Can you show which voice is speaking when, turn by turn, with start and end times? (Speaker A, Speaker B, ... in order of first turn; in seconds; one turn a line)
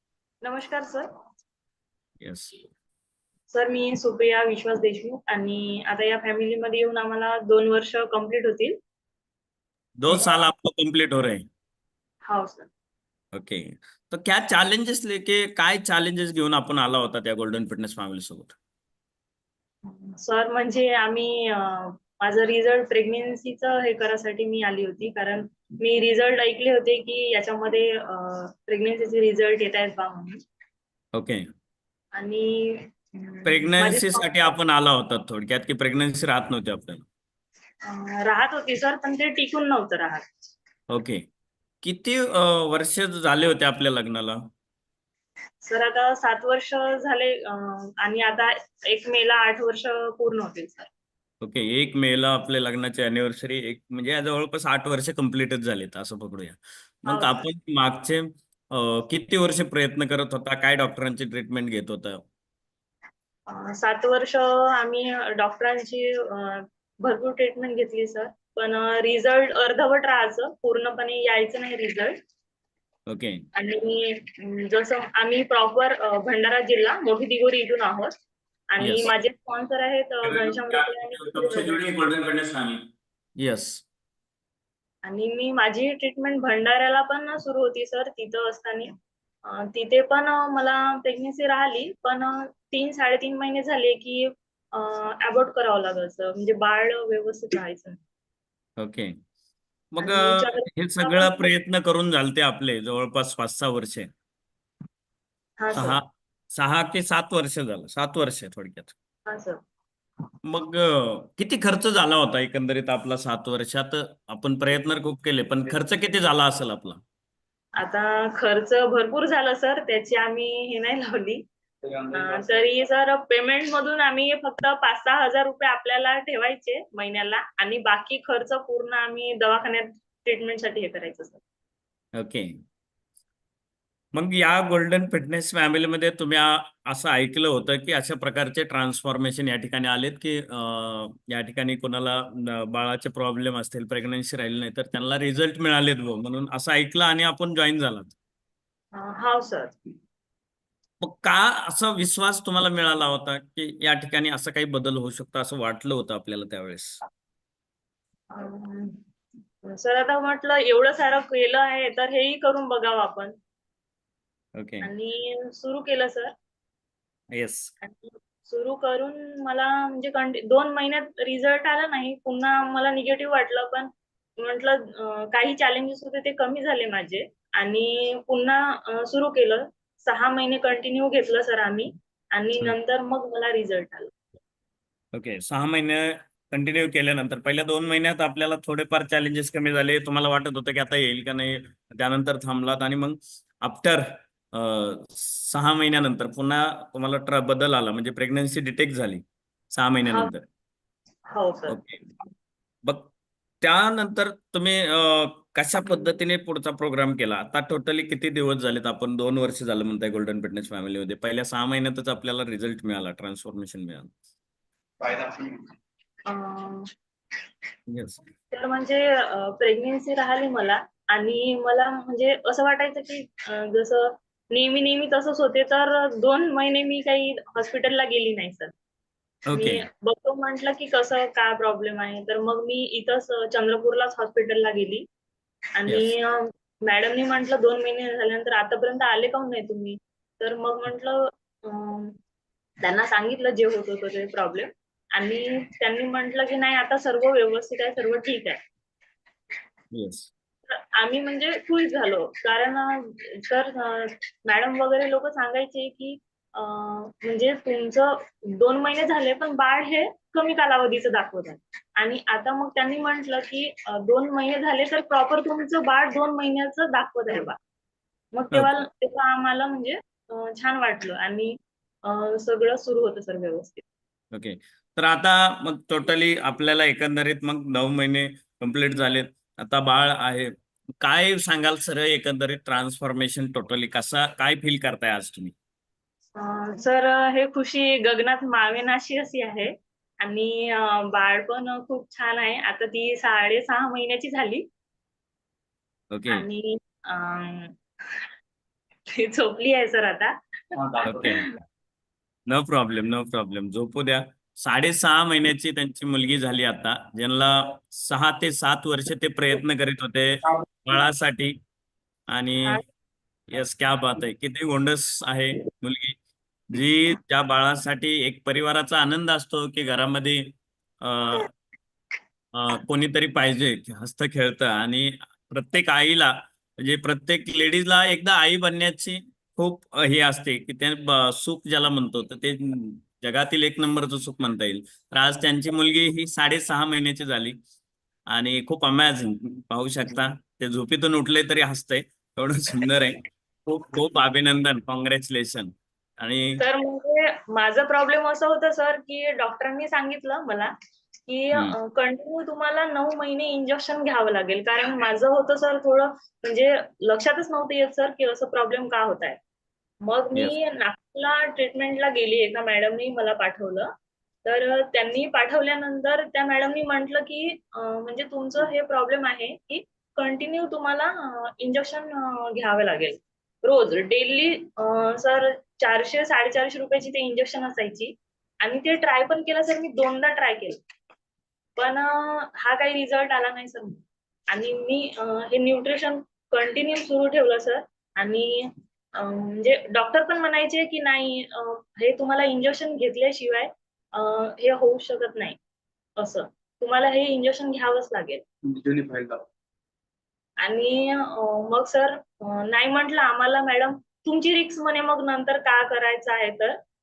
Speaker A: 0.4-1.1
Speaker B: 2.2-2.5
Speaker A: 3.5-8.8
Speaker B: 10.0-11.4
Speaker A: 12.2-12.7
Speaker B: 13.3-18.5
Speaker A: 19.8-30.4
Speaker B: 31.1-31.4
Speaker A: 32.1-34.5
Speaker B: 33.5-37.0
Speaker A: 37.9-40.3
Speaker B: 40.9-41.2
Speaker B: 41.8-44.4
Speaker A: 45.6-50.9
Speaker B: 51.4-62.2
Speaker A: 57.1-57.4
Speaker A: 63.5-72.1
Speaker B: 73.1-73.4
Speaker A: 73.5-78.1
Speaker A: 78.7-81.8
Speaker B: 78.8-79.1
Speaker B: 80.2-82.8
Speaker B: 83.4-83.8
Speaker A: 85.0-88.9
Speaker A: 89.4-98.0
Speaker B: 98.8-99.1
Speaker B: 99.9-104.1
Speaker A: 100.0-101.5
Speaker A: 105.6-106.0
Speaker B: 105.7-108.9
Speaker A: 109.3-109.6
Speaker B: 110.5-117.0
Speaker A: 117.8-121.4
Speaker C: 121.8-122.7
Speaker A: 122.1-131.4
Speaker B: 132.2-132.5
Speaker B: 134.1-148.1
Speaker A: 148.9-149.7
Speaker B: 151.0-157.0
Speaker A: 158.3-159.0
Speaker A: 159.6-163.3
Speaker B: 164.6-164.9
Speaker A: 164.8-166.3
Speaker B: 167.3-167.7
Speaker A: 167.8-184.1
Speaker B: 185.1-199.2
Speaker B: 199.7-200.4
Speaker A: 201.3-201.8
Speaker B: 201.7-202.0
Speaker B: 203.6-214.1
Speaker C: 215.1-215.5
Speaker A: 216.3-216.9
Speaker B: 217.9-218.2
Speaker A: 218.5-228.7
Speaker B: 229.5-229.8
Speaker A: 229.5-235.1
Speaker A: 235.8-242.2
Speaker A: 242.8-248.6
Speaker B: 249.9-250.3
Speaker A: 250.7-267.6
Speaker A: 268.3-273.8
Speaker B: 274.3-285.5
Speaker A: 286.4-294.6
Speaker B: 296.1-296.4
Speaker A: 296.3-298.3
Speaker A: 299.1-300.3
Speaker C: 300.8-301.3
Speaker A: 301.0-301.5
Speaker B: 301.1-301.4
Speaker B: 302.5-311.6
Speaker B: 312.3-312.8
Speaker B: 313.5-316.2
Speaker B: 316.7-320.5
Speaker B: 321.0-321.5
Speaker B: 322.5-337.6
Speaker B: 338.3-346.6
Speaker A: 346.6-350.7
Speaker A: 351.3-359.4
Speaker A: 360.0-363.9
Speaker A: 364.4-380.8
Speaker A: 381.8-395.6
Speaker A: 396.2-398.4
Speaker C: 398.7-399.4
Speaker A: 400.6-406.8